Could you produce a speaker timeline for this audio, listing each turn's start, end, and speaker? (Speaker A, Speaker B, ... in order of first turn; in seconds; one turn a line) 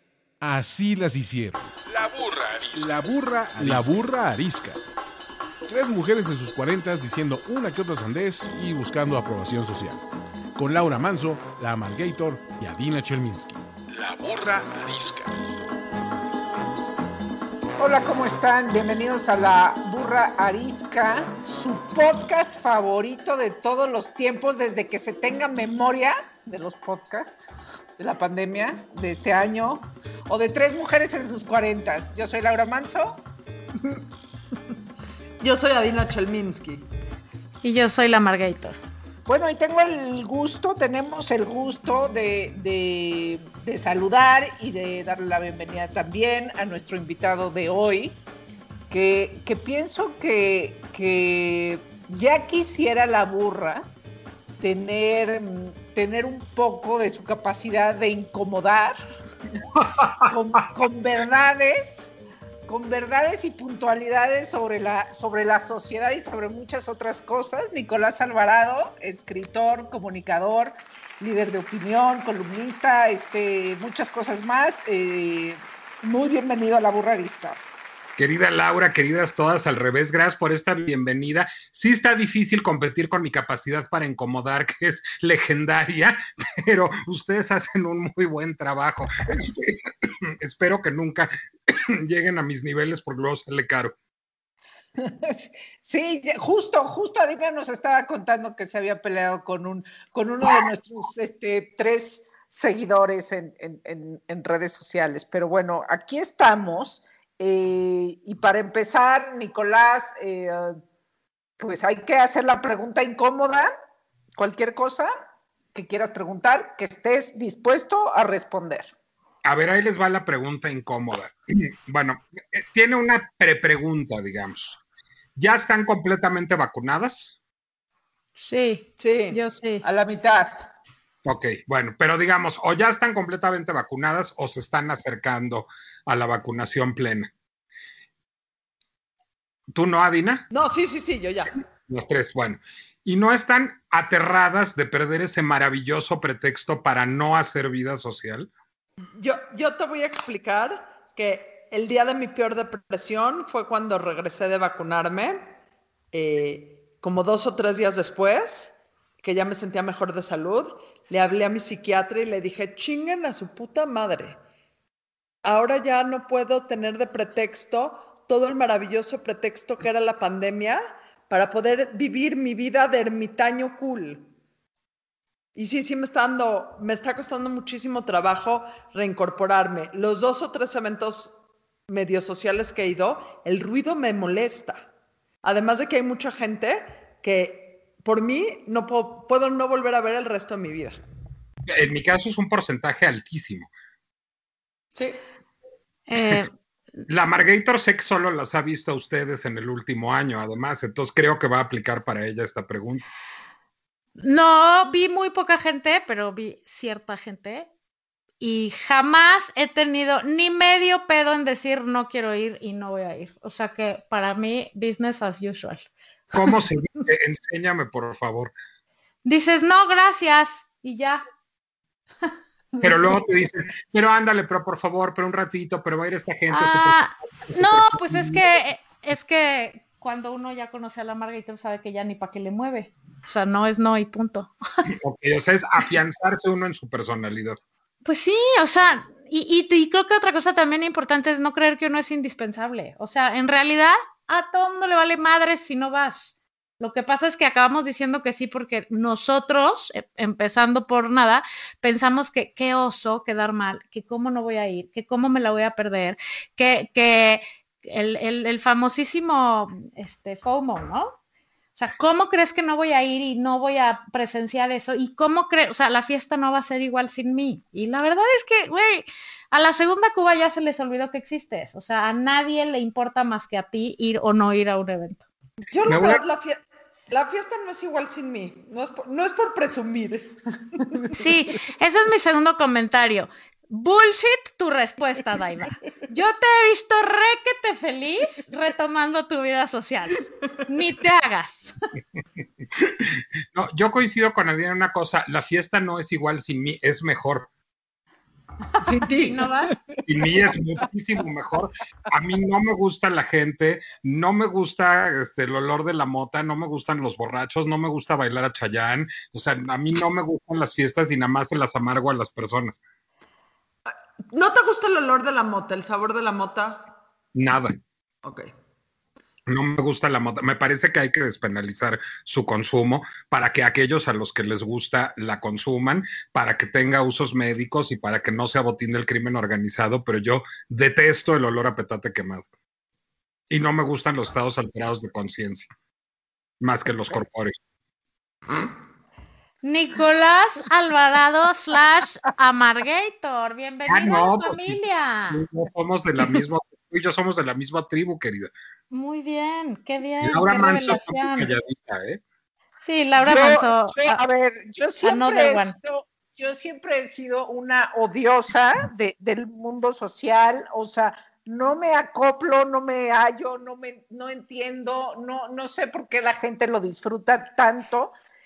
Speaker A: 0.4-1.7
Speaker B: 1.9-3.9
Speaker A: 2.8-4.8
Speaker A: 5.7-10.0
Speaker A: 10.6-13.7
Speaker B: 13.9-15.4
Speaker C: 17.8-33.2
Speaker D: 33.8-34.0
Speaker D: 35.4-36.9
Speaker E: 37.6-38.8
Speaker C: 39.3-48.2
Speaker C: 48.9-53.9
Speaker C: 54.6-59.0
Speaker F: 59.8-60.2
Speaker C: 60.2-62.1
Speaker C: 62.7-77.6
Speaker F: 78.2-93.9
Speaker C: 95.0-110.8
Speaker C: 111.6-113.7
Speaker C: 114.3-115.1
Speaker C: 115.7-118.9
Speaker F: 119.4-124.8
Speaker F: 125.4-127.4
Speaker E: 128.4-129.8
Speaker D: 129.0-129.4
Speaker C: 129.8-130.5
Speaker F: 131.2-137.3
Speaker F: 139.7-140.5
Speaker D: 140.5-141.5
Speaker F: 141.9-148.5
Speaker D: 149.2-155.5
Speaker D: 156.1-164.4
Speaker D: 165.4-174.3
Speaker D: 175.6-181.3
Speaker D: 181.9-184.9
Speaker D: 185.4-191.0
Speaker F: 191.7-193.7
Speaker E: 196.1-196.5
Speaker F: 197.1-203.1
Speaker E: 204.2-207.7
Speaker E: 208.4-215.9
Speaker F: 216.3-218.5
Speaker E: 219.2-221.2
Speaker F: 222.8-228.5
Speaker E: 226.5-234.5
Speaker F: 234.9-237.6
Speaker E: 238.1-261.2
Speaker E: 261.8-275.2
Speaker D: 275.7-281.2
Speaker F: 275.9-276.2
Speaker E: 281.1-291.8
Speaker F: 292.8-297.5
Speaker D: 298.8-299.5
Speaker E: 299.1-299.7
Speaker F: 300.1-312.8
Speaker D: 314.3-316.9
Speaker F: 317.4-317.8
Speaker D: 318.2-318.5
Speaker F: 319.5-332.5
Speaker F: 333.5-335.7
Speaker F: 336.6-337.6
Speaker E: 339.6-345.4
Speaker F: 343.9-344.8
Speaker F: 345.3-348.5
Speaker E: 348.9-351.5
Speaker F: 350.2-352.2
Speaker E: 352.8-354.2
Speaker C: 353.2-368.2
Speaker E: 355.0-355.8